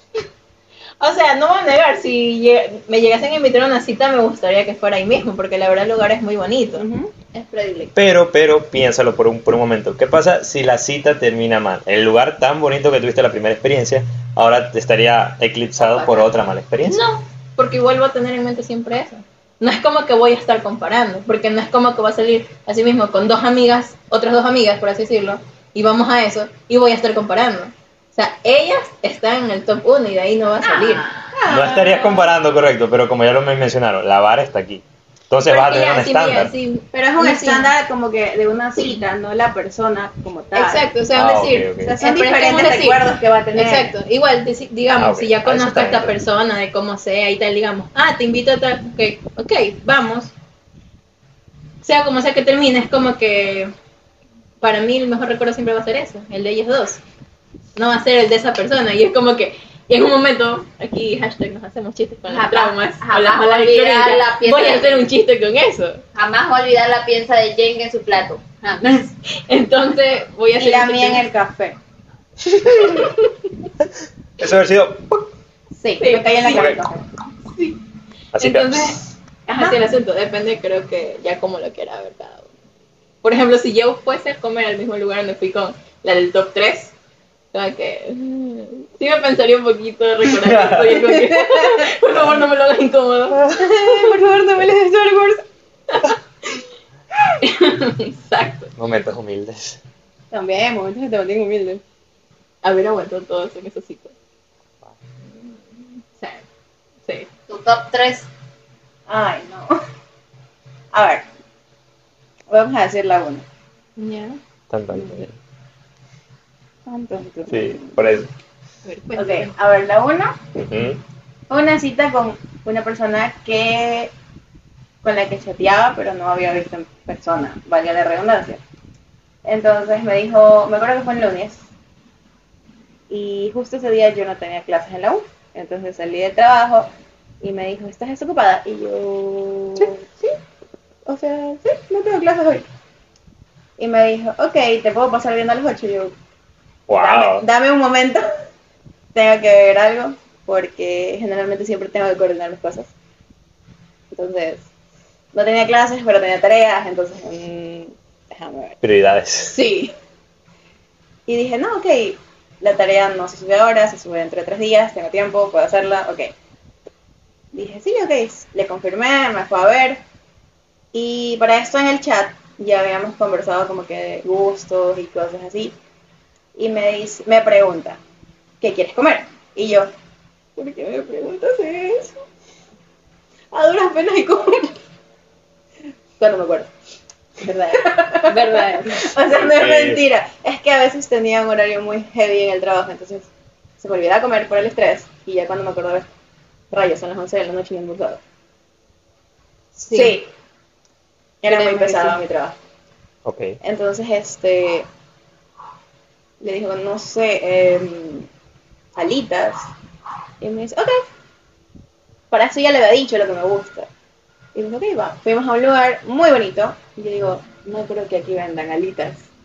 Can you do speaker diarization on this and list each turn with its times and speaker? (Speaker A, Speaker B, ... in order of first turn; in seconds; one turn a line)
Speaker A: 1.0-6.9
Speaker B: 6.7-7.1
Speaker C: 7.3-7.9
Speaker D: 8.0-17.0
Speaker A: 16.8-31.1
Speaker C: 30.6-31.3
Speaker B: 31.3-32.3
Speaker D: 31.5-36.5
Speaker A: 35.5-37.7
Speaker B: 36.9-40.9
Speaker A: 40.5-50.3
Speaker D: 41.1-41.9
Speaker B: 41.8-43.9
Speaker D: 44.9-46.1
Speaker A: 51.8-53.7
Speaker A: 54.6-57.0
Speaker A: 57.8-66.0
Speaker C: 62.3-65.1
Speaker C: 66.1-69.0
Speaker A: 68.8-71.2
Speaker B: 70.6-71.8
Speaker A: 72.7-73.3
Speaker D: 74.4-75.3
Speaker B: 75.7-77.0
Speaker A: 76.0-76.8
Speaker D: 76.5-76.8
Speaker A: 77.5-77.8
Speaker D: 78.3-79.0
Speaker A: 78.4-82.5
Speaker B: 79.5-79.8
Speaker A: 83.2-86.9
Speaker A: 87.5-94.0
Speaker D: 90.3-91.1
Speaker B: 91.2-91.9
Speaker B: 93.5-95.4
Speaker A: 95.9-96.6
Speaker A: 97.3-98.7
Speaker D: 98.8-99.8
Speaker B: 100.3-101.8
Speaker A: 102.6-104.1
Speaker A: 106.2-106.4
Speaker C: 107.5-108.3
Speaker B: 109.1-109.8
Speaker B: 110.9-111.2
Speaker B: 112.5-113.4
Speaker A: 114.0-114.4
Speaker D: 114.7-115.3
Speaker B: 114.9-115.2
Speaker B: 116.8-118.0
Speaker D: 117.5-118.3
Speaker A: 118.8-119.5
Speaker B: 119.1-120.4
Speaker D: 120.5-121.0
Speaker B: 121.5-124.1
Speaker B: 125.0-128.6
Speaker B: 129.4-131.6
Speaker B: 133.1-136.9
Speaker B: 137.4-140.1
Speaker B: 141.1-142.6
Speaker B: 143.8-146.1
Speaker D: 146.9-147.4
Speaker B: 146.9-148.2
Speaker B: 149.1-152.9
Speaker B: 154.1-154.7
Speaker B: 155.3-158.8
Speaker D: 158.8-159.6
Speaker A: 159.5-159.9
Speaker B: 161.3-166.3
Speaker B: 167.5-170.0
Speaker B: 170.9-175.7
Speaker B: 176.5-178.0
Speaker B: 178.6-179.9
Speaker B: 180.6-182.2
Speaker B: 183.5-184.8
Speaker B: 186.2-186.7
Speaker B: 187.4-196.1
Speaker A: 188.3-189.1
Speaker D: 189.2-190.0
Speaker B: 196.7-198.2
Speaker A: 199.8-200.2
Speaker B: 199.9-200.3
Speaker B: 201.4-202.5
Speaker A: 201.5-202.2
Speaker D: 203.2-203.6
Speaker B: 203.6-204.9
Speaker B: 206.4-208.3
Speaker B: 208.9-209.7
Speaker B: 210.4-211.0
Speaker B: 212.3-213.9
Speaker B: 214.5-219.3